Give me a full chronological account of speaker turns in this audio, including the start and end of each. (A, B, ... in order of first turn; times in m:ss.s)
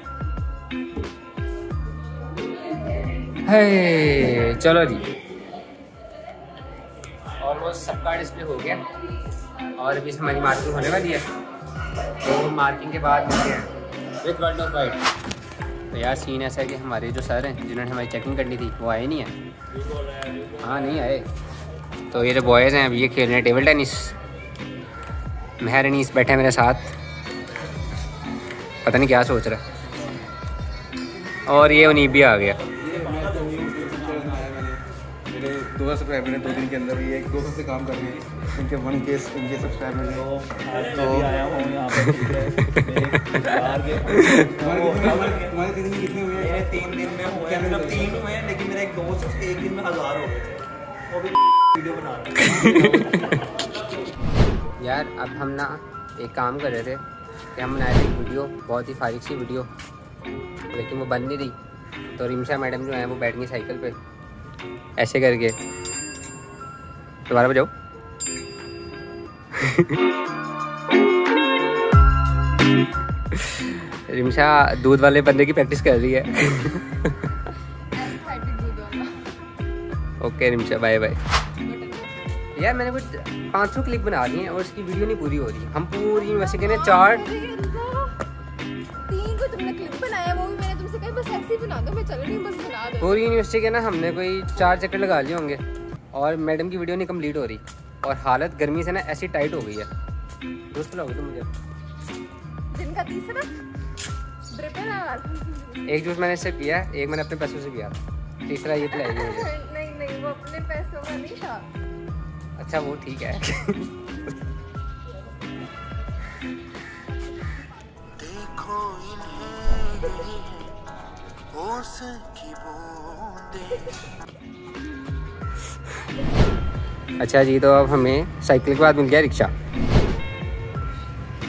0:03.4-0:05.0 A
0:07.4-0:08.8 A
0:09.8-0:11.3 A
0:12.2-0:13.7 A
0:14.2-0:15.0 A
0:15.9-0:19.4 A
0:20.6-0:21.3 A
0:22.1-0:24.2 A
0:25.6-0:26.9 A
0:28.8-0:29.6 A
0:31.5-0:32.6 A
0:32.9-0:40.3 B
0:32.9-0:34.2 C
0:40.2-0:45.5 C
0:41.0-0:41.3 B
0:42.0-0:43.6 A
0:44.1-0:44.5 A
0:44.5-0:46.8 B
0:46.4-0:50.6 C
0:47.4-0:48.2 B
0:51.1-0:53.1 C
0:52.4-0:53.1 A
0:54.8-0:57.0 A
0:57.6-0:59.7 A
1:00.7-1:01.6 A
1:02.2-1:04.0 A
1:05.0-1:05.6 A
1:07.3-1:07.7 A
1:09.6-1:09.9 A
1:13.4-1:17.1 A
1:17.9-1:19.3 D
1:20.2-1:21.2 A
1:21.6-1:22.2 D
1:22.6-1:27.3 A
1:26.2-1:28.2 D
1:29.1-1:33.2 D
1:33.0-1:35.6 A
1:36.1-1:39.9 A
1:40.7-1:41.5 A
1:42.7-1:43.5 D
1:44.5-1:45.8 D
1:45.9-1:49.5 A
1:48.9-1:51.7 D
1:52.6-1:53.9 A
1:58.2-1:58.7 D
1:58.2-2:00.3 E
1:59.9-2:00.2 D
2:01.5-2:03.7 E
2:03.2-2:03.5 D
2:07.2-2:09.5 A